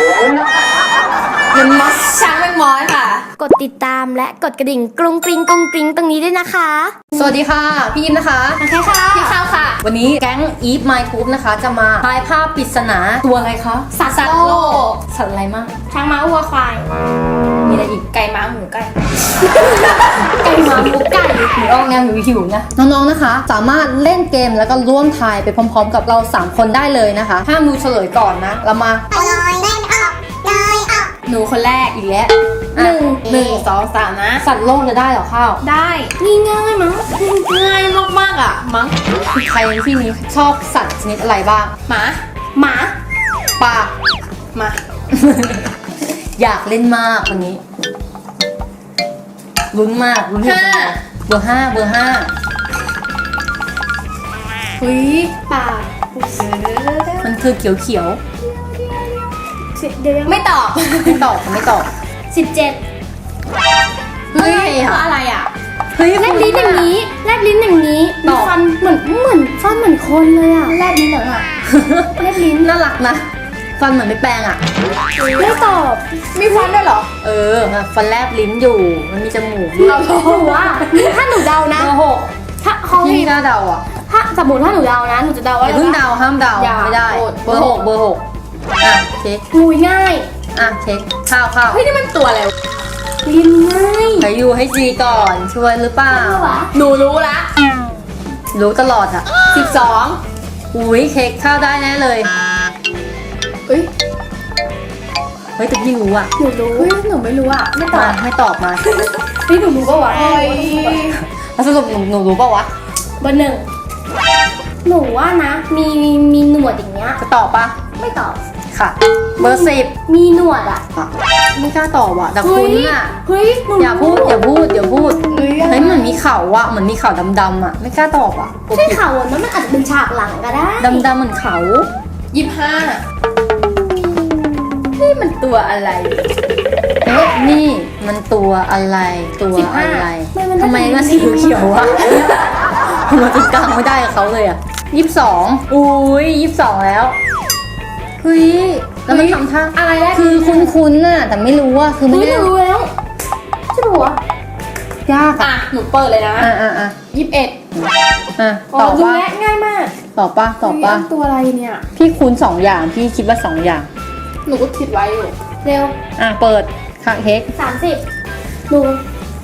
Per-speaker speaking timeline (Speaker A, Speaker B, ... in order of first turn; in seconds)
Speaker A: 1.5-3.3, 9.1-9.8, 14.1-15.0, 17.6-18.9, 19.6-20.2, 31.2-32.3, 33.2-34.5, 35.6-36.1, 37.1-39.0, 41.9-42.2, 44.5-44.8, 50.4-51.0, 54.8-55.3, 56.4-57.3, 60.3-61.3, 64.3-65.5, 70.7-71.5, 76.3-77.1, 79.8-81.1, 86.5-87.8, 91.7-92.5, 96.7-97.5, 99.5-100.2, 106.7-108.2, 110.1-111.2, 125.3-125.7, 132.3-133.0, 135.0-136.2, 155.4-156.5, 157.1-157.6, 158.7-159.9, 160.6-161.9, 164.5-165.4
Speaker B: 3.4-7.0, 8.6-9.4, 13.9-14.9, 15.9-16.9, 20.3-21.5, 29.1-31.1, 32.8-33.6, 36.2-37.1, 42.5-43.0, 55.4-56.5, 58.4-60.4, 62.3-62.8, 66.1-70.8, 72.2-72.7, 75.2-76.0, 79.8-82.0, 82.6-83.3, 84.1-86.0, 89.5-90.3, 93.2-94.3, 96.1-96.7, 106.4-106.9, 109.5-111.1, 113.2-113.7, 114.8-117.2, 118.0-118.4, 119.4-120.8, 122.4-124.5, 125.3-126.2, 128.7-131.1, 139.5-142.1, 149.1-150.8, 152.1-152.9, 153.7-154.2, 159.0-159.9, 165.6-166.0, 167.6-168.0, 168.7-169.0
Speaker C: 7.2-8.6, 9.8-13.9, 14.9-15.8, 17.7-18.0, 21.6-29.2, 32.8-33.0, 34.4-35.6, 39.4-41.7, 43.6-43.9, 45.1-45.8, 46.4-47.6, 49.7-52.3, 57.2-58.2, 61.0-61.9, 64.4-65.0, 65.9-66.9, 68.2-68.5, 71.7-73.3, 73.8-74.6, 77.2-80.0, 81.7-82.3, 82.9-83.8, 85.6-88.2, 88.8-89.4, 90.5-91.9, 94.2-96.6, 98.5-99.3, 100.7-102.3, 105.6-106.3, 107.9-108.8, 111.2-112.7, 117.2-117.8, 118.7-119.9, 120.9-123.2, 123.8-129.0, 130.8-131.9, 137.1-147.2, 148.2-152.5, 155.1-155.5, 156.4-157.0, 157.8-159.3, 160.2-161.1, 162.0-163.9, 166.2-167.5